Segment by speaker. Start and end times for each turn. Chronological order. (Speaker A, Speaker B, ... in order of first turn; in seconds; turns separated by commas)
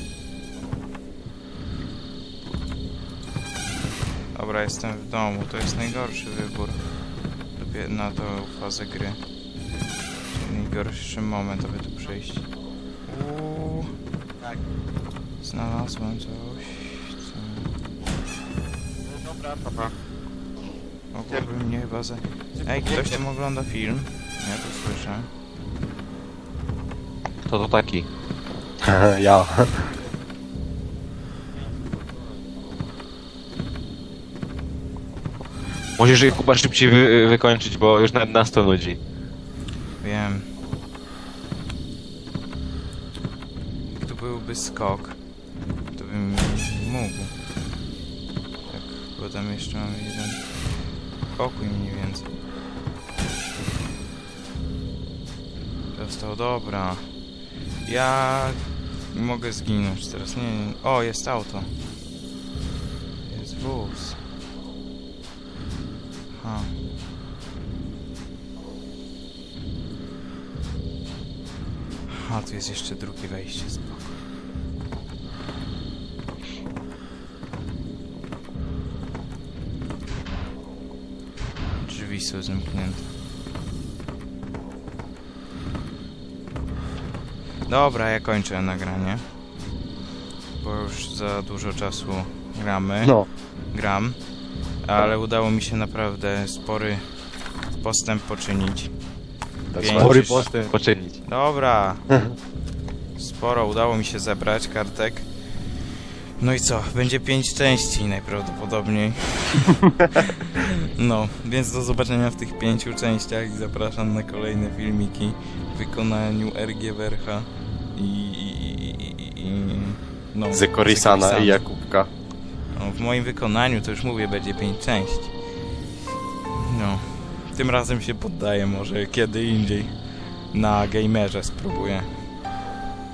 Speaker A: 4.3-6.8, Speaker A: 7.5-9.2, Speaker A: 10.3-12.5, Speaker A: 13.1-13.9, Speaker A: 15.4-17.7, Speaker A: 21.1-25.3, Speaker B: 27.5-28.1, Speaker C: 28.8-29.9, Speaker B: 36.0-39.0, Speaker A: 40.0-40.5, Speaker A: 43.9-45.2, Speaker A: 45.9-47.3, Speaker A: 48.7-50.6, Speaker A: 51.3-52.3, Speaker A: 55.9-57.2, Speaker A: 57.8-61.7, Speaker A: 63.3-64.2, Speaker A: 66.3-66.8, Speaker A: 72.1-74.2, Speaker A: 81.8-83.1, Speaker A: 87.7-89.2, Speaker A: 90.6-97.2, Speaker A: 97.7-98.9, Speaker C: 99.7-100.5, Speaker A: 99.8-100.6, Speaker B: 100.0-101.2, Speaker A: 101.2-102.2, Speaker A: 103.2-105.3, Speaker A: 106.4-121.6, Speaker C: 120.5-122.1, Speaker A: 122.7-125.3, Speaker A: 126.6-132.3